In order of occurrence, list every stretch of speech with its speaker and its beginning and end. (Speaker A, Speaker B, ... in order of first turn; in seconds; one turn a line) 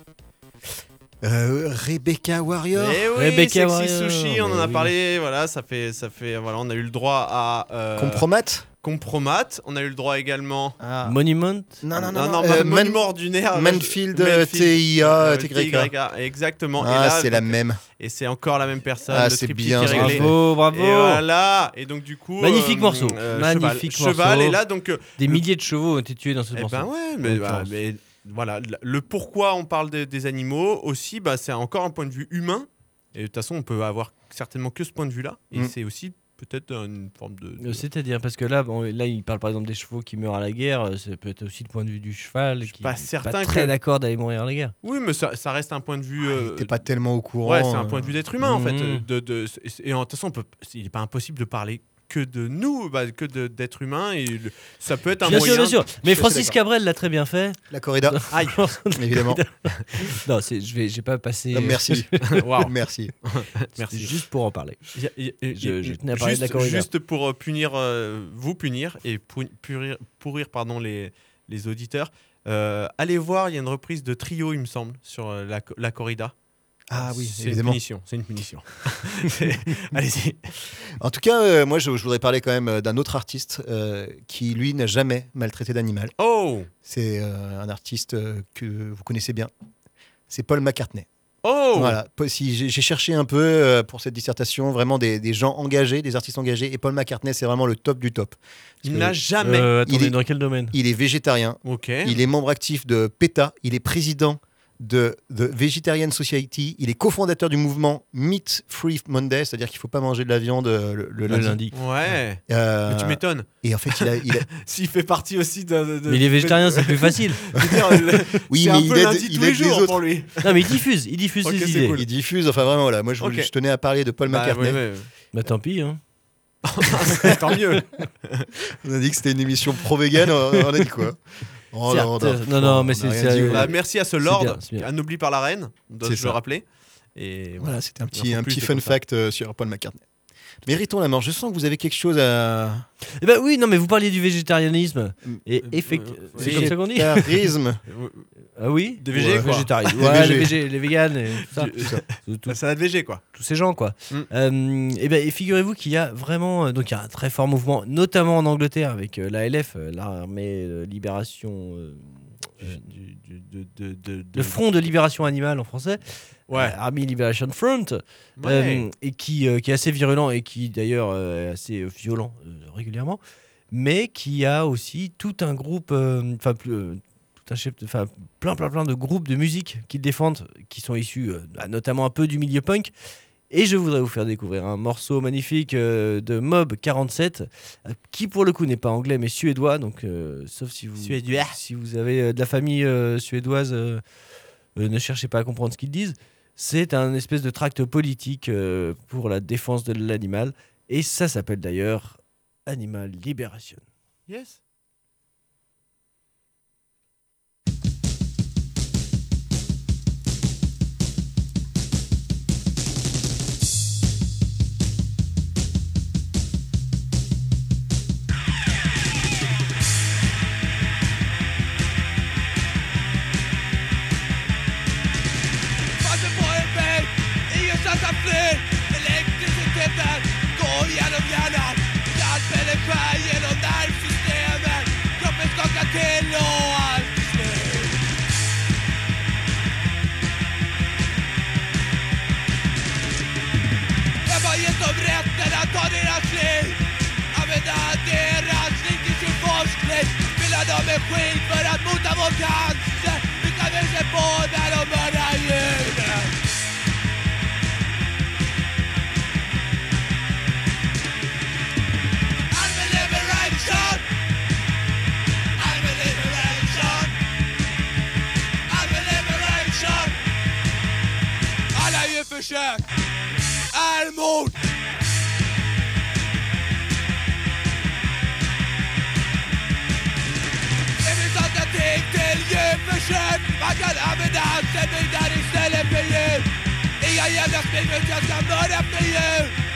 Speaker A: 1.2-3.1
Speaker B: 2.7-8.2
Speaker C: 3.1-4.9
Speaker A: 8.0-8.6
Speaker B: 8.8-10.8
Speaker A: 10.8-11.2
Speaker C: 11.0-11.8
Speaker A: 11.8-15.9
Speaker B: 11.9-25.4
Speaker A: 16.8-17.8
Speaker A: 19.1-20.3
Speaker C: 19.8-21.2
Speaker C: 22.4-24.6
Speaker C: 25.2-27.7
Speaker B: 26.5-37.8
Speaker C: 37.6-44.7
Speaker B: 42.7-43.7
Speaker B: 44.8-46.8
Speaker A: 46.2-48.1
Speaker B: 47.4-55.8
Speaker C: 48.4-49.0
Speaker C: 55.2-62.4
Speaker A: 55.3-56.5
Speaker A: 57.7-58.3
Speaker A: 58.9-59.4
Speaker A: 61.5-63.1
Speaker B: 62.3-62.7
Speaker B: 63.2-64.1
Speaker C: 63.9-64.8
Speaker B: 64.9-76.3
Speaker C: 65.6-66.9
Speaker A: 76.9-77.8
Speaker B: 76.9-80.5
Speaker A: 81.0-86.1
Speaker B: 86.2-86.7
Speaker A: 86.8-89.5
Speaker A: 90.3-91.1
Speaker B: 91.4-92.0
Speaker A: 91.7-99.1
Speaker B: 98.8-99.7
Speaker C: 99.4-100.7
Speaker A: 99.8-100.2
Speaker A: 100.7-111.6
Speaker B: 101.6-102.2
Speaker C: 111.3-111.7
Speaker B: 111.7-120.7
Speaker A: 112.5-114.5
Speaker C: 116.1-117.5
Speaker A: 118.5-120.0
Speaker C: 120.4-122.0
Speaker B: 121.4-122.0
Speaker A: 121.9-124.8
Speaker B: 123.2-123.5
Speaker B: 124.3-125.1
Speaker C: 125.3-126.0
Speaker B: 126.6-128.5
Speaker A: 128.8-131.2
Speaker A: 131.7-133.7
Speaker C: 131.9-134.9
Speaker B: 133.4-136.6
Speaker A: 136.0-136.4
Speaker B: 137.1-139.0
Speaker A: 137.6-140.0
Speaker A: 140.6-142.8
Speaker C: 143.2-147.4
Speaker B: 145.9-146.8
Speaker A: 146.4-147.8
Speaker B: 147.9-148.2
Speaker C: 148.6-152.6
Speaker B: 149.0-150.3
Speaker A: 149.1-150.5
Speaker B: 151.4-153.2
Speaker C: 153.2-162.8
Speaker B: 162.6-164.6
Speaker C: 164.3-173.2
Speaker B: 166.5-166.8
Speaker B: 168.4-168.8
Speaker C: 173.7-182.9
Speaker C: 183.5-194.0
Speaker B: 191.0-191.6
Speaker C: 194.8-203.8
Speaker B: 204.3-204.6
Speaker D: 226.0-238.0
Speaker D: 244.2-246.8
Speaker D: 247.3-256.3
Speaker D: 262.5-264.0
Speaker D: 265.6-267.1
Speaker D: 268.7-270.1
Speaker D: 271.7-272.8
Speaker D: 273.7-274.6
Speaker D: 281.0-286.4
Speaker D: 287.0-289.5